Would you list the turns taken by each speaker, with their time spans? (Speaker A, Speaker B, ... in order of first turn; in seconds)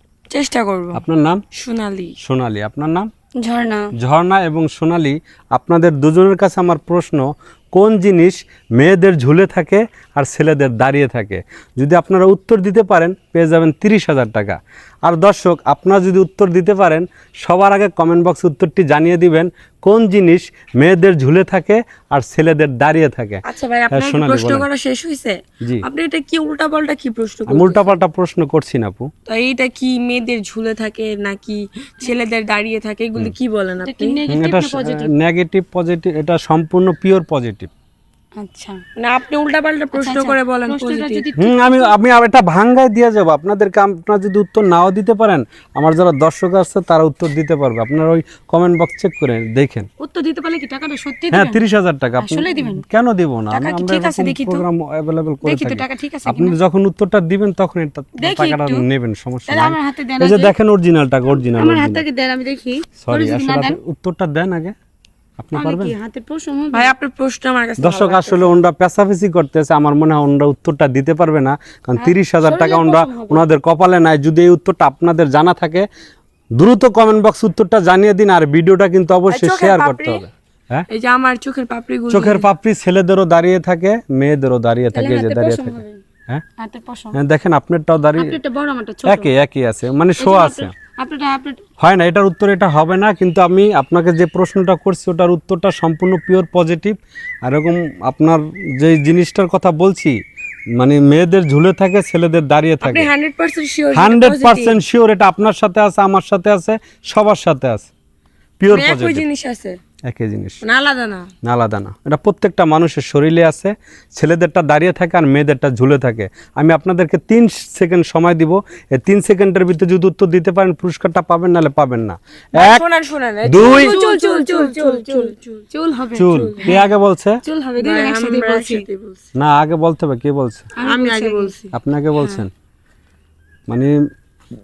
Speaker A: 0.3-1.0, 1.5-2.1, 23.4-28.0, 29.3-34.2, 39.0-41.3, 53.5-54.6, 66.7-68.6, 79.3-80.2, 80.9-82.5, 102.8-104.8, 108.7-109.8, 110.6-111.3, 122.5-125.7, 126.2-126.8, 127.8-129.2, 130.8-132.4
Speaker B: 0.9-1.4, 2.2-3.1, 4.0-24.7, 27.5-29.1, 34.3-37.7, 41.4-49.9, 51.3-62.0, 63.0-64.7, 65.4-66.0, 67.8-75.8, 76.6-80.8, 82.1-86.4, 87.1-88.4, 89.0-90.7, 91.8-100.2, 100.8-103.1, 103.9-107.9, 108.6-109.2, 110.1-110.6, 111.4-122.8, 123.5-123.9, 126.1-127.4, 129.3-130.7, 131.7-132.5, 133.7-134.1
Speaker C: 3.4-3.9, 33.8-35.1, 38.4-38.8, 39.9-42.0, 50.0-51.6, 52.2-52.8, 55.4-56.5, 58.2-58.8, 59.5-60.5, 61.5-63.8, 65.5-66.9, 72.0-73.4, 84.9-86.0, 86.6-87.2, 88.2-89.3, 90.2-91.6, 123.6-126.9, 127.4-128.8, 130.8-131.5